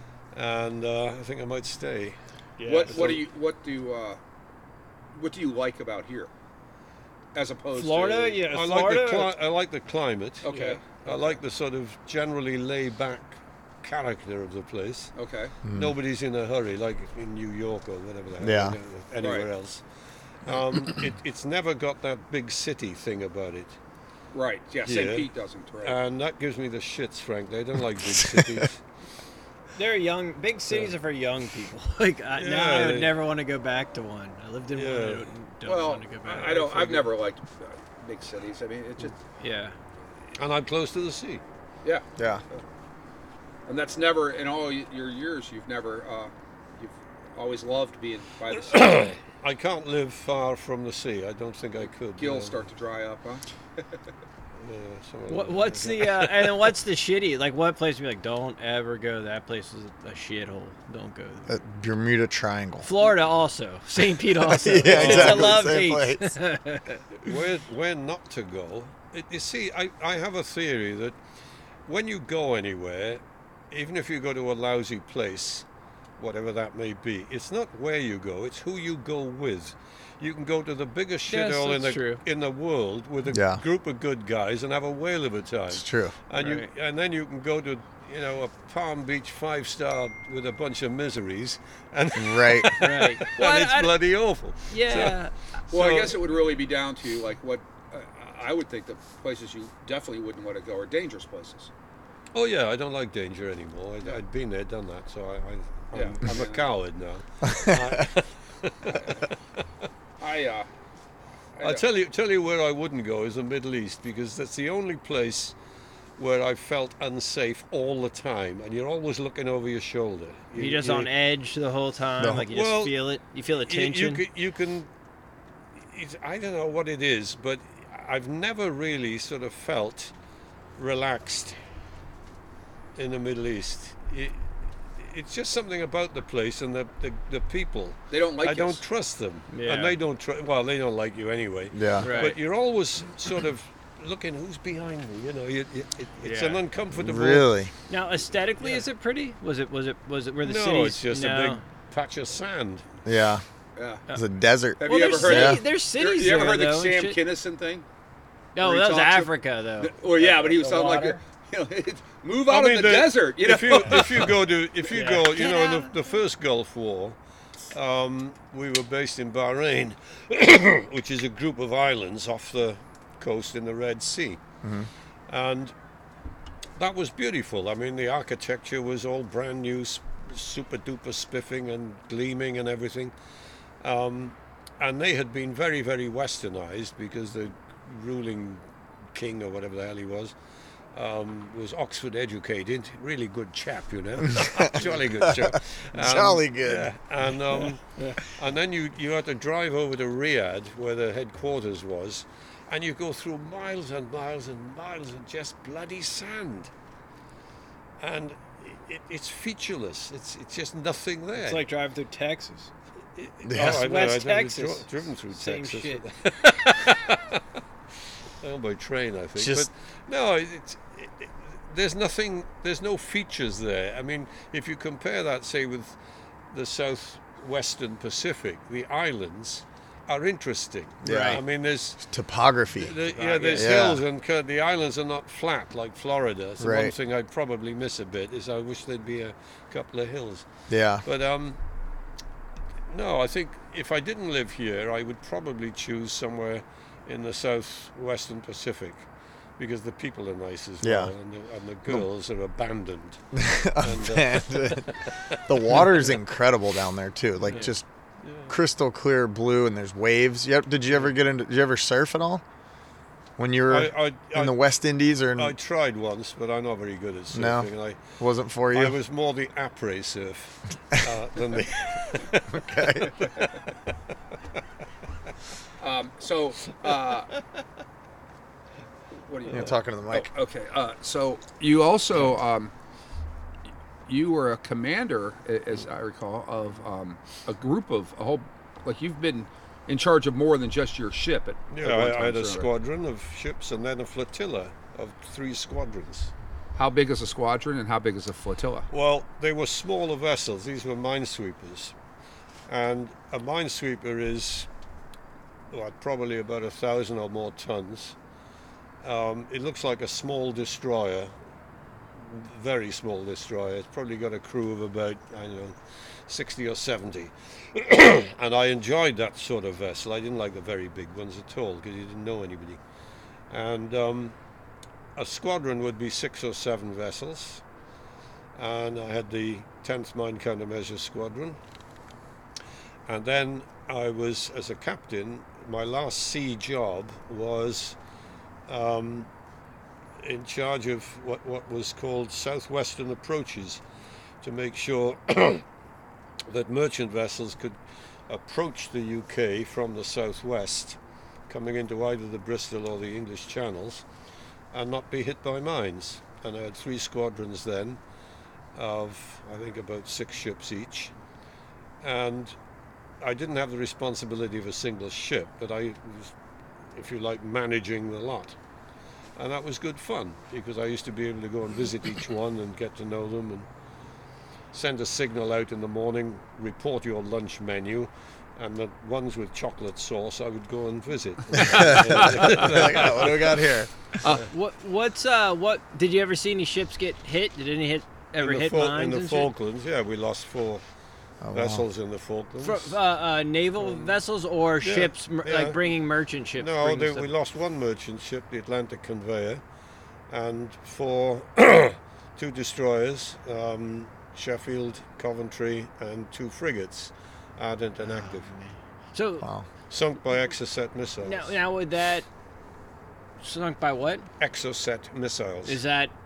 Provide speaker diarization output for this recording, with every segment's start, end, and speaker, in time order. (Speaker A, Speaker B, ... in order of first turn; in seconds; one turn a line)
Speaker A: 0.3-2.2
Speaker B: 2.6-3.2
Speaker C: 2.6-4.2
Speaker A: 2.8-3.2
Speaker C: 5.1-6.3
Speaker C: 7.3-8.4
Speaker B: 7.7-9.3
Speaker A: 8.5-15.1
Speaker C: 10.4-11.4
Speaker B: 10.5-10.8
Speaker C: 15.2-15.5
Speaker D: 15.6-15.9
Speaker A: 15.7-19.8
Speaker D: 18.4-18.8
Speaker C: 19.2-19.5
Speaker A: 20.4-23.8
Speaker C: 24.3-26.0
Speaker A: 24.8-25.3
Speaker A: 25.8-28.8
Speaker D: 28.2-28.6
Speaker B: 29.8-37.0
Speaker A: 32.4-33.2
Speaker A: 34.7-35.3
Speaker C: 35.6-39.2
Speaker A: 36.5-36.9
Speaker B: 39.4-39.8
Speaker A: 40.4-41.4
Speaker C: 41.8-42.6
Speaker D: 42.2-42.4
Speaker C: 43.7-49.1
Speaker A: 48.6-52.6
Speaker C: 52.2-53.4
Speaker A: 54.6-56.7
Speaker B: 55.3-61.5
Speaker D: 61.5-62.9
Speaker B: 62.8-67.3
Speaker D: 64.5-66.3
Speaker A: 64.8-65.6
Speaker A: 67.2-71.2
Speaker A: 71.8-75.6
Speaker A: 76.2-95.2
Speaker B: 81.3-82.2
Speaker D: 83.3-83.6
Speaker D: 85.7-86.2
Speaker B: 86.4-86.7
Speaker D: 92.1-92.7
Speaker B: 92.8-94.0
Speaker B: 94.7-95.4
Speaker C: 95.7-101.7
Speaker A: 95.7-96.2
Speaker A: 102.3-109.1
Speaker C: 105.9-106.6
Speaker D: 107.5-107.8
Speaker C: 110.2-110.7
Speaker C: 111.6-111.8
Speaker A: 111.6-115.5
Speaker A: 116.2-121.1
Speaker B: 120.5-124.2
Speaker D: 122.2-122.5
Speaker A: 122.5-123.0
Speaker A: 123.7-124.9
Speaker A: 125.8-130.1
Speaker A: 130.8-131.6
Speaker A: 132.9-147.5
Speaker C: 138.1-138.8
Speaker B: 139.5-140.0
Speaker D: 141.7-142.1
Speaker B: 142.0-142.4
Speaker B: 146.2-146.6
Speaker D: 146.9-147.7
Speaker B: 147.9-151.6
Speaker A: 150.4-152.8
Speaker D: 153.0-153.4
Speaker C: 153.8-154.0
Speaker D: 154.1-155.6
Speaker C: 154.8-157.8
Speaker B: 154.8-157.2
Speaker B: 158.5-161.2
Speaker C: 158.6-164.4
Speaker A: 162.5-167.2
Speaker B: 164.9-166.0
Speaker A: 167.7-174.4
Speaker D: 174.6-174.9
Speaker A: 175.3-175.7
Speaker A: 176.8-183.1
Speaker A: 183.8-188.6
Speaker A: 189.1-190.3
Speaker A: 190.9-206.7
Speaker D: 194.2-196.9
Speaker A: 208.0-211.6
Speaker B: 211.3-212.7
Speaker A: 213.2-217.4
Speaker D: 213.4-213.8
Speaker B: 213.6-216.0
Speaker A: 218.4-226.0
Speaker D: 219.4-219.7
Speaker A: 226.5-232.0
Speaker D: 231.0-231.4
Speaker B: 231.0-231.4
Speaker D: 232.0-234.0
Speaker A: 232.8-240.5
Speaker B: 233.1-233.7
Speaker D: 236.6-236.9
Speaker D: 240.7-241.0
Speaker A: 241.0-241.6
Speaker A: 242.9-253.2
Speaker D: 250.8-251.1
Speaker D: 253.3-257.8
Speaker A: 253.8-255.8
Speaker A: 257.4-257.7
Speaker A: 258.2-258.5
Speaker D: 258.5-262.4
Speaker D: 263.4-265.5
Speaker A: 263.7-264.6
Speaker A: 265.4-268.0
Speaker D: 267.3-269.0
Speaker A: 268.7-273.5
Speaker D: 272.5-273.4
Speaker C: 275.8-277.3
Speaker C: 279.3-282.7
Speaker D: 279.5-280.3
Speaker C: 284.1-292.7
Speaker A: 291.7-296.3
Speaker C: 296.7-298.9
Speaker A: 298.9-301.9
Speaker A: 302.7-304.7
Speaker A: 305.7-308.1
Speaker A: 309.0-311.3
Speaker A: 312.2-315.8
Speaker A: 316.3-322.8
Speaker A: 323.5-324.3
Speaker A: 325.1-327.6
Speaker A: 328.6-331.6
Speaker A: 333.1-337.9
Speaker A: 338.7-339.3
Speaker A: 340.2-343.8
Speaker A: 344.4-345.6
Speaker A: 346.5-347.8
Speaker A: 348.3-351.0
Speaker A: 351.5-354.0
Speaker A: 354.7-358.0
Speaker A: 358.7-361.1
Speaker A: 362.0-362.6
Speaker A: 363.2-366.3
Speaker A: 366.9-368.6
Speaker A: 369.4-373.7
Speaker A: 374.7-383.6
Speaker D: 381.5-383.9
Speaker C: 381.8-382.6
Speaker B: 384.5-389.5
Speaker A: 388.4-390.8
Speaker D: 391.4-391.8
Speaker A: 391.5-393.0
Speaker B: 392.6-397.3
Speaker A: 393.8-394.1
Speaker A: 394.8-395.9
Speaker A: 396.6-399.6
Speaker A: 400.3-408.5
Speaker B: 408.1-409.5
Speaker D: 409.4-409.7
Speaker A: 409.9-411.6
Speaker B: 411.2-412.2
Speaker B: 413.4-414.3
Speaker A: 414.4-415.8
Speaker B: 415.6-416.1